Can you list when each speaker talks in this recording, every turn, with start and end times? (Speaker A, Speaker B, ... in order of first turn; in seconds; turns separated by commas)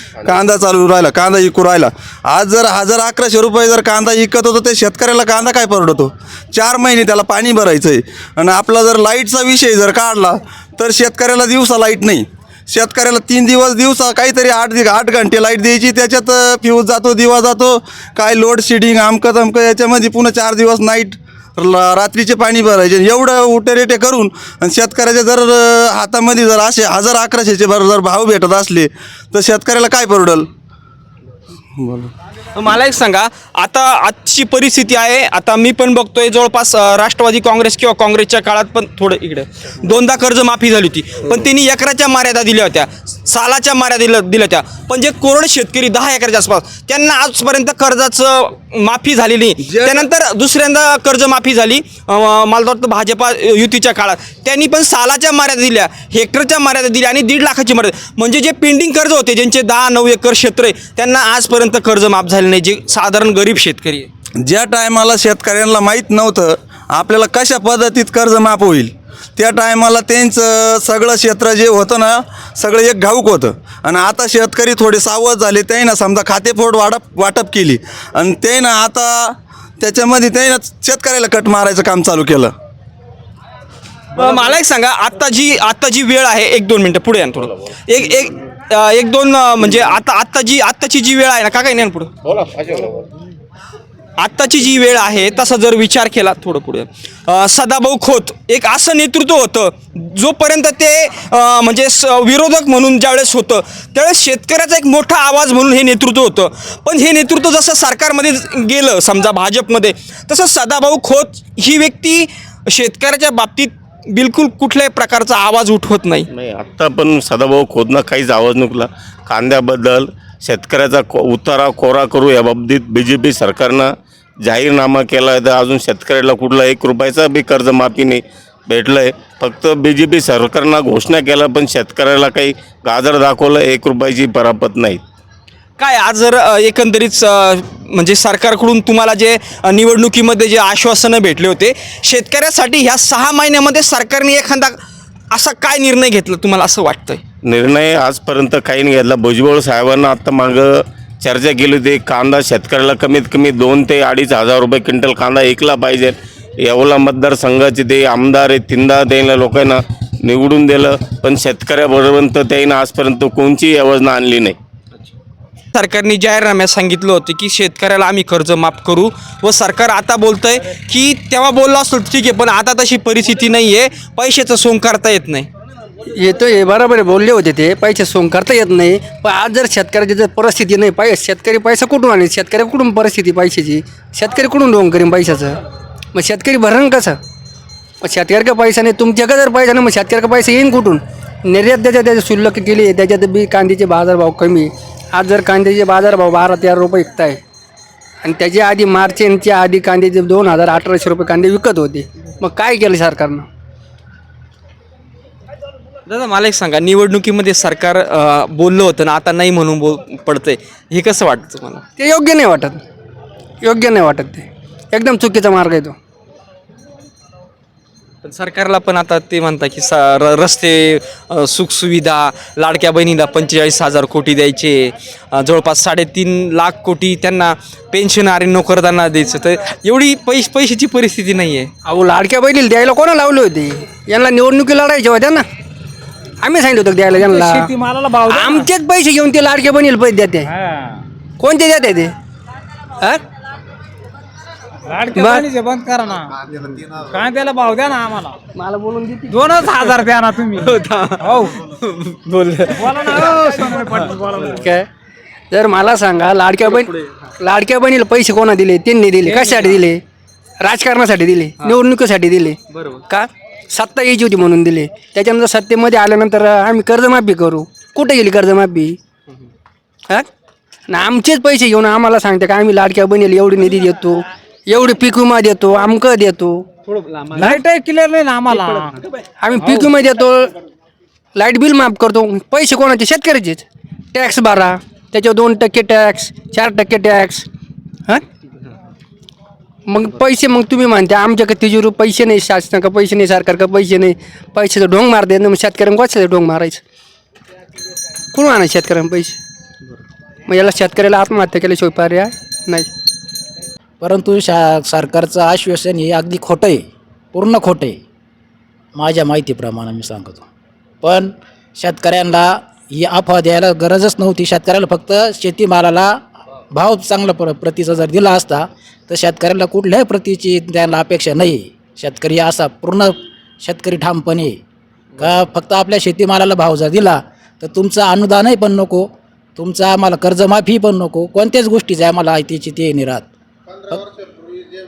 Speaker A: 0.2-30.5, Speaker A: 31.8-32.1, Speaker B: 32.5-64.1, Speaker A: 64.4-82.5, Speaker B: 84.1-92.1, Speaker B: 94.2-116.3, Speaker C: 116.3-123.9, Speaker C: 124.4-135.0, Speaker B: 135.8-144.8, Speaker B: 145.3-147.2, Speaker C: 147.4-164.6, Speaker B: 165.7-175.5, Speaker D: 176.1-185.6, Speaker D: 186.1-187.2, Speaker D: 188.0-197.4, Speaker D: 198.2-203.5, Speaker B: 206.1-211.8, Speaker D: 212.0-212.8, Speaker D: 213.6-215.9, Speaker B: 218.2-231.7, Speaker D: 231.8-235.4, Speaker D: 236.4-240.5, Speaker E: 237.1-238.7, Speaker E: 240.5-241.0, Speaker D: 241.4-242.1, Speaker E: 244.9-246.4, Speaker D: 245.1-245.4, Speaker E: 247.0-248.4, Speaker D: 248.5-249.4, Speaker E: 249.3-251.6, Speaker D: 250.6-251.7, Speaker D: 252.3-253.4, Speaker E: 252.7-254.6, Speaker D: 254.3-254.9, Speaker D: 255.5-260.0, Speaker B: 259.3-259.6, Speaker D: 260.6-269.0, Speaker B: 262.7-263.0, Speaker D: 270.9-276.7, Speaker E: 277.4-278.9, Speaker D: 278.7-280.5, Speaker D: 281.3-283.6, Speaker D: 284.1-287.5, Speaker D: 289.9-296.8, Speaker D: 298.3-299.4, Speaker D: 300.5-302.9, Speaker F: 304.0-308.0, Speaker F: 308.9-310.4, Speaker F: 311.0-324.6, Speaker F: 325.2-333.3